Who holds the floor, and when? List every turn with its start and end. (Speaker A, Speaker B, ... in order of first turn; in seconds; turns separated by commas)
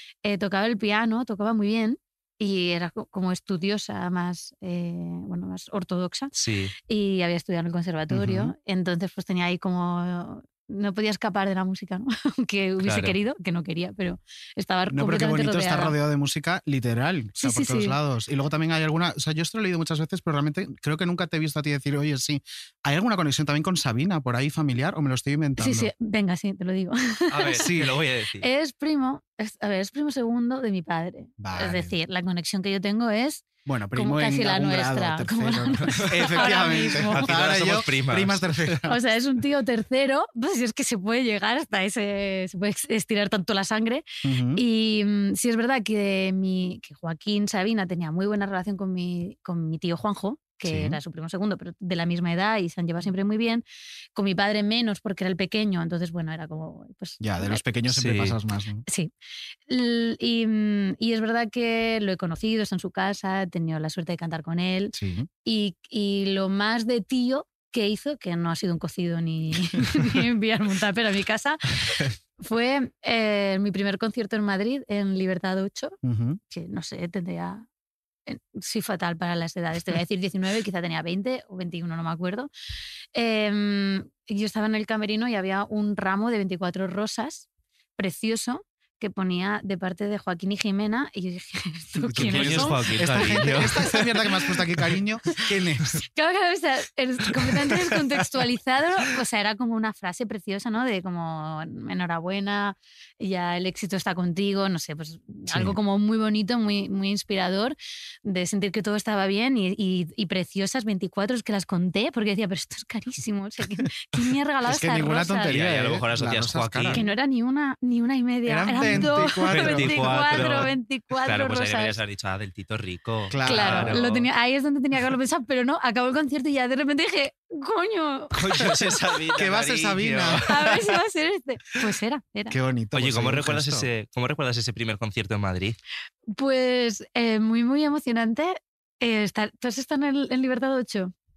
Speaker A: 0.2-6.3, Speaker B: 6.3-6.7, Speaker A: 6.9-15.9, Speaker C: 8.1-8.5, Speaker B: 12.8-13.1, Speaker C: 14.9-25.9, Speaker A: 17.4-18.0, Speaker A: 25.6-27.6, Speaker B: 27.3-28.5, Speaker C: 27.5-28.0, Speaker A: 28.4-37.3, Speaker C: 31.4-31.9, Speaker C: 33.6-39.0, Speaker B: 36.0-38.8, Speaker A: 38.9-53.6, Speaker C: 44.2-44.6, Speaker C: 50.6-51.0, Speaker A: 54.1-57.6, Speaker C: 57.2-58.9, Speaker B: 57.9-58.4, Speaker A: 59.7-76.0, Speaker C: 64.9-65.3, Speaker C: 76.0-76.4, Speaker A: 76.5-77.7, Speaker A: 78.3-82.5, Speaker A: 83.1-87.5, Speaker A: 88.0-94.0, Speaker C: 92.0-96.0, Speaker B: 92.2-94.0, Speaker A: 96.1-115.5, Speaker C: 114.6-117.0, Speaker B: 115.5-117.0, Speaker A: 116.9-122.0, Speaker C: 118.5-120.7, Speaker B: 118.8-124.3, Speaker C: 123.3-124.0, Speaker A: 123.4-128.4, Speaker B: 128.3-130.8, Speaker C: 129.3-130.5, Speaker A: 130.5-132.6, Speaker C: 132.5-133.9, Speaker B: 132.9-135.8, Speaker A: 136.3-141.1